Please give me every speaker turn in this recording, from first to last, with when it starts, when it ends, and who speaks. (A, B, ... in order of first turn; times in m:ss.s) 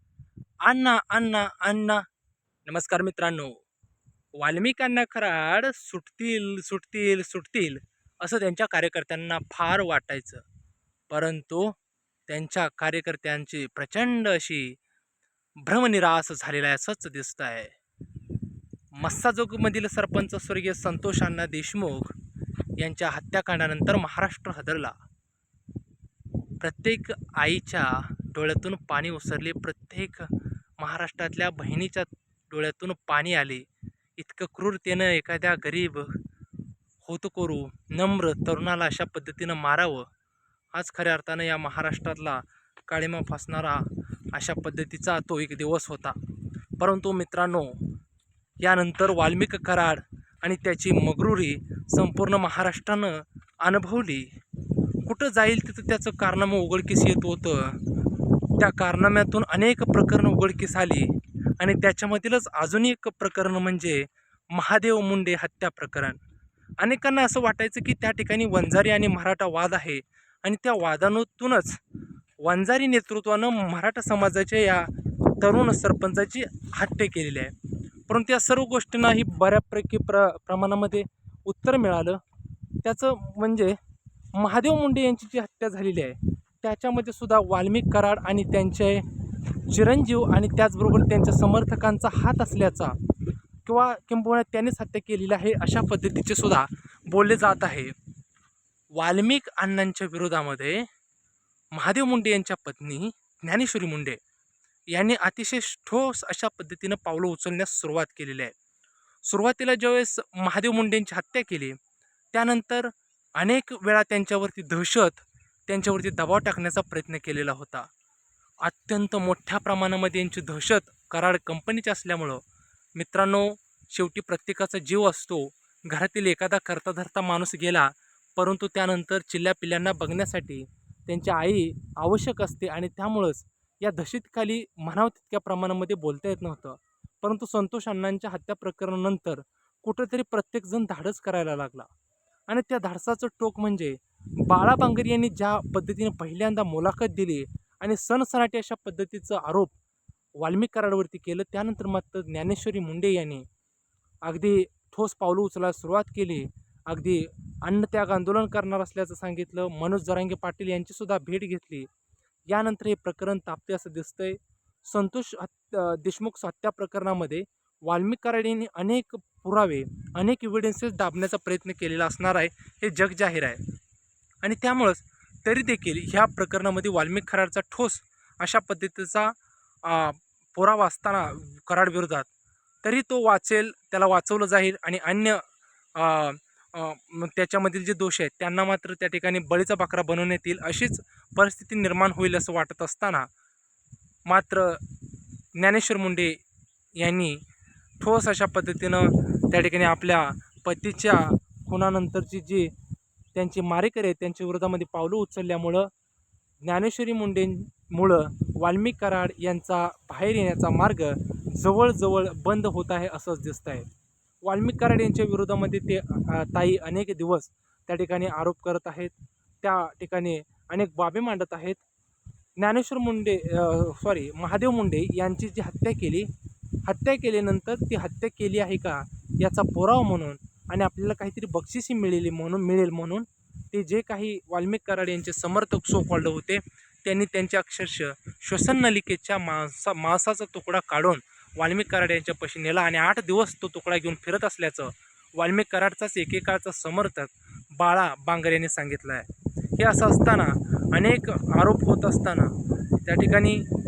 0:00.6-0:02.0 A
0:02.6-0:03.6 A
0:04.4-0:10.4 A
0:11.1-0:11.8 A
0:12.3-0:14.8 A
0:15.6-0:17.7 A
0:19.0-0:22.1 A
0:22.8-0:24.9 A
0:26.6-0:33.6 A
0:34.2-0:36.2 A
0:37.0-0:40.1 A
0:40.7-0:46.2 A
0:46.8-0:47.9 A
0:48.6-0:54.3 A
0:55.0-0:57.8 A
0:58.5-1:06.2 A
1:06.8-1:11.8 A
1:12.4-1:17.5 A
1:18.1-1:22.2 A
1:22.8-1:23.8 A
1:24.3-1:29.1 A
1:29.7-1:33.0 A
1:33.6-1:37.9 A
1:38.9-1:40.9 A
1:41.7-1:44.2 A
1:44.9-1:48.5 A
1:49.2-1:51.8 A
1:52.3-1:57.9 A
1:58.6-2:02.4 A
2:03.0-2:21.9 A
2:22.5-2:29.7 A
2:30.4-2:33.4 A
2:34.2-2:41.9 A
2:42.5-2:53.6 A
2:54.4-2:59.3 A
2:59.8-3:02.3 A
3:02.8-3:05.4 A
3:06.0-3:13.3 A
3:14.3-3:14.8 A
3:15.6-3:16.4 A
3:17.0-3:17.4 A
3:18.0-3:22.7 A
3:23.3-3:25.9 A
3:26.6-3:33.9 A
3:34.4-3:41.8 A
3:42.6-3:46.3 A
3:46.9-4:13.7 A